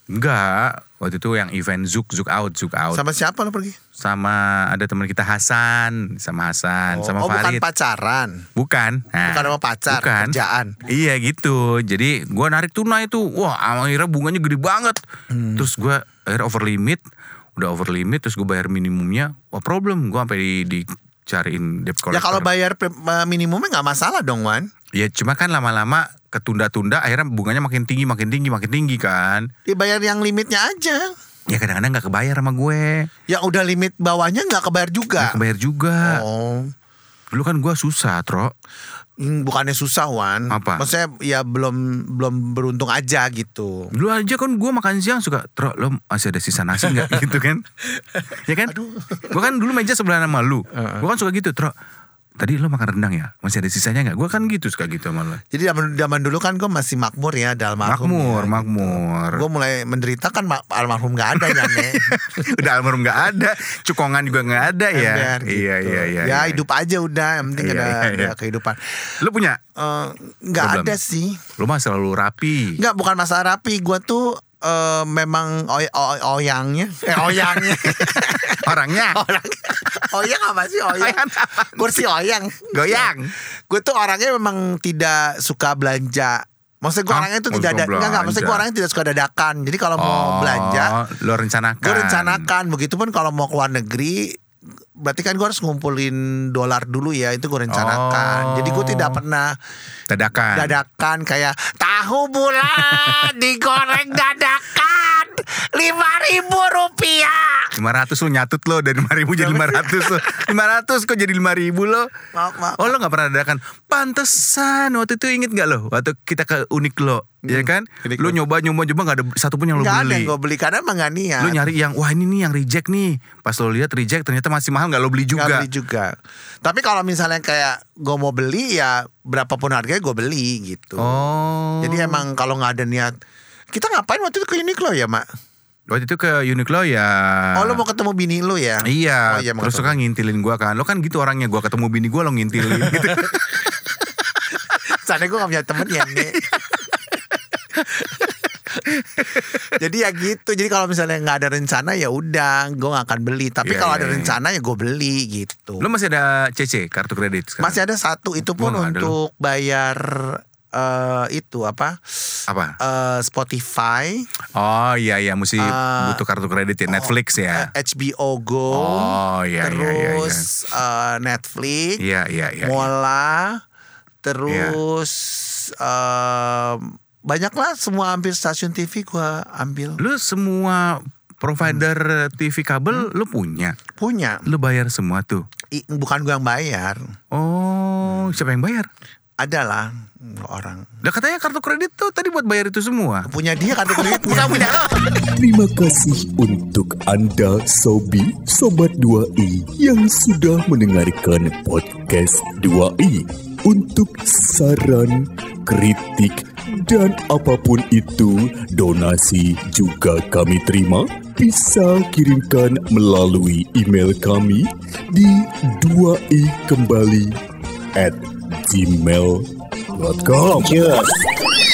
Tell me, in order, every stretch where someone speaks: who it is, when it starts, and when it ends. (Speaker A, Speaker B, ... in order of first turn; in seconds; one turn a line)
Speaker A: 0.1-3.0
Speaker B: 2.9-3.8
Speaker A: 4.0-7.6
Speaker B: 6.9-8.5
Speaker A: 8.6-15.0
Speaker B: 9.2-10.7
Speaker B: 15.3-15.7
Speaker A: 15.6-17.0
Speaker A: 17.6-22.5
Speaker B: 22.1-24.7
Speaker A: 25.0-29.5
Speaker B: 29.7-31.1
Speaker A: 31.5-33.1
Speaker B: 33.3-35.4
Speaker A: 35.2-36.2
Speaker B: 36.0-36.7
Speaker A: 37.3-38.5
Speaker B: 39.2-43.9
Speaker A: 40.5-40.9
Speaker A: 44.0-47.6
Speaker A: 48.3-51.7
Speaker B: 48.7-49.5
Speaker B: 50.7-51.1
Speaker A: 52.4-55.4
Speaker B: 55.5-62.7
Speaker A: 57.8-59.4
Speaker A: 61.4-66.6
Speaker B: 64.8-69.2
Speaker A: 67.5-68.3
Speaker A: 69.2-69.6
Speaker B: 69.8-71.4
Speaker A: 70.6-71.0
Speaker A: 71.6-72.8
Speaker B: 72.8-83.2
Speaker A: 77.2-79.2
Speaker A: 81.0-82.0
Speaker A: 82.7-83.3
Speaker B: 83.7-91.0
Speaker A: 87.1-88.7
Speaker A: 90.0-92.5
Speaker B: 91.8-94.4
Speaker B: 95.0-99.5
Speaker A: 97.7-99.2
Speaker A: 100.1-100.8
Speaker B: 100.5-107.8
Speaker A: 102.7-103.2
Speaker A: 107.8-112.1
Speaker B: 109.3-110.5
Speaker B: 112.3-112.9
Speaker A: 112.8-120.3
Speaker B: 117.5-118.4
Speaker B: 119.8-121.7
Speaker A: 121.4-125.7
Speaker B: 125.3-131.3
Speaker A: 131.0-132.2
Speaker B: 131.8-133.2
Speaker B: 133.7-135.2
Speaker A: 135.9-137.8
Speaker B: 137.6-140.0
Speaker A: 138.8-143.6
Speaker B: 142.7-143.9
Speaker B: 144.6-146.4
Speaker B: 148.0-148.6
Speaker A: 149.0-149.6
Speaker B: 149.3-155.8
Speaker A: 153.6-154.4
Speaker A: 155.8-157.8
Speaker B: 157.6-164.3
Speaker A: 158.4-159.2
Speaker A: 162.5-162.8
Speaker A: 164.6-167.7
Speaker B: 165.6-166.2
Speaker B: 166.9-172.0
Speaker A: 168.7-170.5
Speaker A: 172.0-172.9
Speaker B: 172.6-173.6
Speaker B: 174.2-180.0
Speaker A: 174.5-174.8
Speaker A: 180.0-183.8
Speaker B: 184.0-184.5
Speaker A: 184.5-185.4
Speaker B: 185.7-187.0
Speaker A: 187.3-188.9
Speaker B: 189.4-190.9
Speaker A: 191.0-193.3
Speaker B: 193.3-194.8
Speaker A: 194.0-195.1
Speaker C: 195.1-217.4
Speaker C: 218.0-221.3